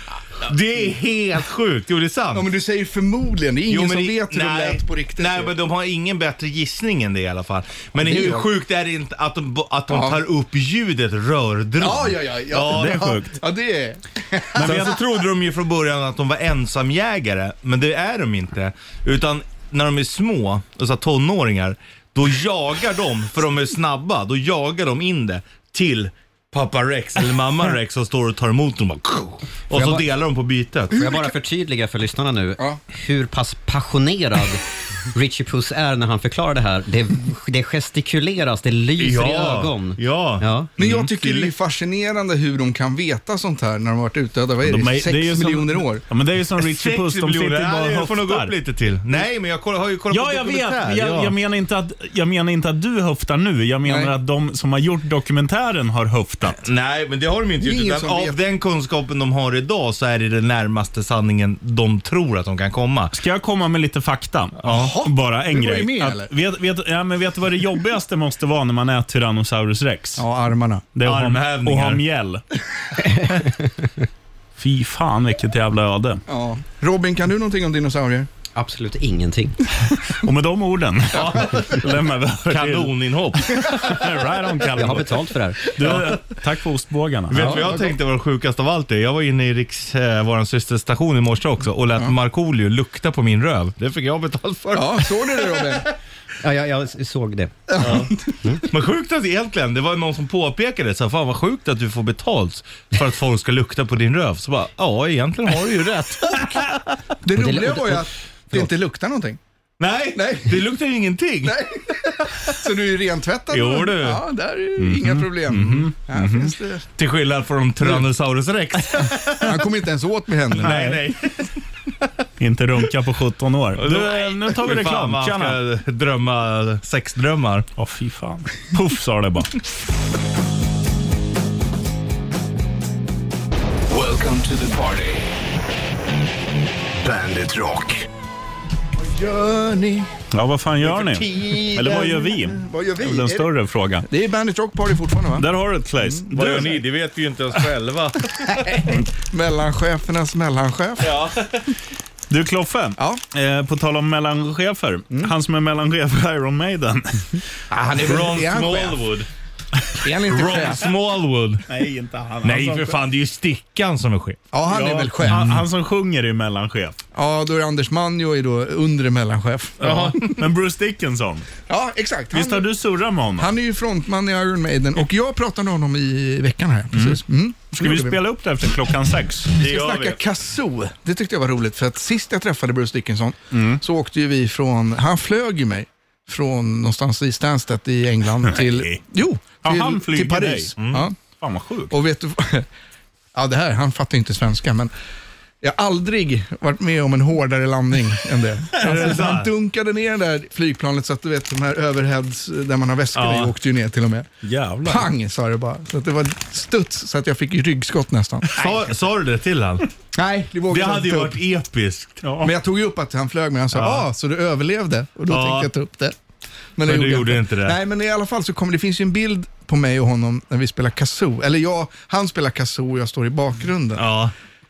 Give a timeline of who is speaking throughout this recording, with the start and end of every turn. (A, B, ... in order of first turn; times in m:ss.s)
0:00.4-0:02.5 A
0:02.3-0:05.5 B
0:03.7-0:13.2 A
0:08.0-0:08.5 B
0:09.9-0:10.2 B
0:11.8-0:15.0 B
0:12.7-0:13.4 C
0:14.5-0:15.0 C
0:14.6-0:31.2 A
0:29.7-0:30.0 D
0:30.9-0:34.6 D
0:30.9-0:31.3 B
0:35.1-0:40.7 D
0:39.0-0:41.5 A
0:40.8-0:46.0 B
0:44.6-0:48.5 C
0:46.6-0:51.3 A
0:50.1-0:56.6 C
0:53.8-0:54.1 B
0:56.6-1:03.1 A
0:57.6-0:58.4 B
1:03.1-1:10.2 C
1:04.6-1:06.3 B
1:10.2-1:10.8 B
1:10.9-1:12.4 C
1:11.0-1:12.0 A
1:14.6-1:16.2 C
1:16.3-1:18.3 B
1:18.5-1:19.6 D
1:20.1-1:27.7 C
1:21.1-1:21.9 A
1:22.5-1:24.0 A
1:24.7-1:25.6 D
1:25.8-1:26.2 A
1:27.3-1:35.8 A
1:27.3-1:27.8 B
1:34.7-1:35.9 B
1:36.4-1:37.5 D
1:37.7-1:38.3 B
1:37.8-1:38.1 A
1:38.7-1:46.5 A
1:47.2-1:49.4 B
1:47.3-1:48.0 D
1:49.8-1:51.6 A
1:50.1-1:50.6 B
1:51.4-1:56.8 B
1:53.5-1:54.2 A
1:54.8-1:56.5 C
1:57.0-1:59.5 A
1:59.4-2:00.8 B
2:00.6-2:01.4 A
2:00.6-2:01.0 C
2:02.4-2:05.6 C
2:03.8-2:07.7 A
2:07.8-2:09.5 C
2:13.9-2:15.2 E
2:17.1-2:18.0 E
2:19.0-2:20.1 B
2:20.3-2:24.1 C
2:20.8-2:22.1 A
2:21.5-2:23.5 B
2:24.0-2:26.7 B
2:25.4-2:26.8 C
2:26.3-2:28.8 A
2:28.7-2:31.2 B
2:31.0-2:31.6 A
2:32.3-2:37.4 C
2:37.7-2:39.0 B
2:37.9-2:39.3 A
2:40.0-2:40.9 B
2:40.3-2:41.6 A
2:41.7-2:43.0 C
2:42.4-2:44.4 A
2:44.5-2:45.6 B
2:44.7-2:47.0 C
2:45.2-2:45.6 A
2:47.1-2:50.2 B
2:49.8-2:50.4 A
2:49.8-2:51.5 C
2:51.7-2:52.7 B
2:52.3-2:53.5 C
2:53.4-2:58.2 B
2:56.9-2:59.6 C
2:59.6-3:11.1 B
2:59.6-3:00.2 A
3:03.5-3:03.8 C
3:08.5-3:09.0 C
3:09.6-3:10.8 C
3:10.8-3:11.1 A
3:11.4-3:12.0 C
3:11.9-3:12.7 B
3:13.3-3:14.9 B
3:15.6-3:24.3 B
3:18.8-3:19.5 A
3:23.1-3:23.5 A
3:24.4-3:25.1 C
3:24.8-3:28.9 B
3:28.5-3:29.9 A
3:30.1-3:31.4 B
3:30.7-3:32.2 A
3:32.2-3:32.5 C
3:32.4-3:36.2 B
3:33.7-3:34.0 A
3:35.3-3:35.7 A
3:36.8-3:44.1 B
3:36.8-3:37.8 A
3:44.0-3:44.3 A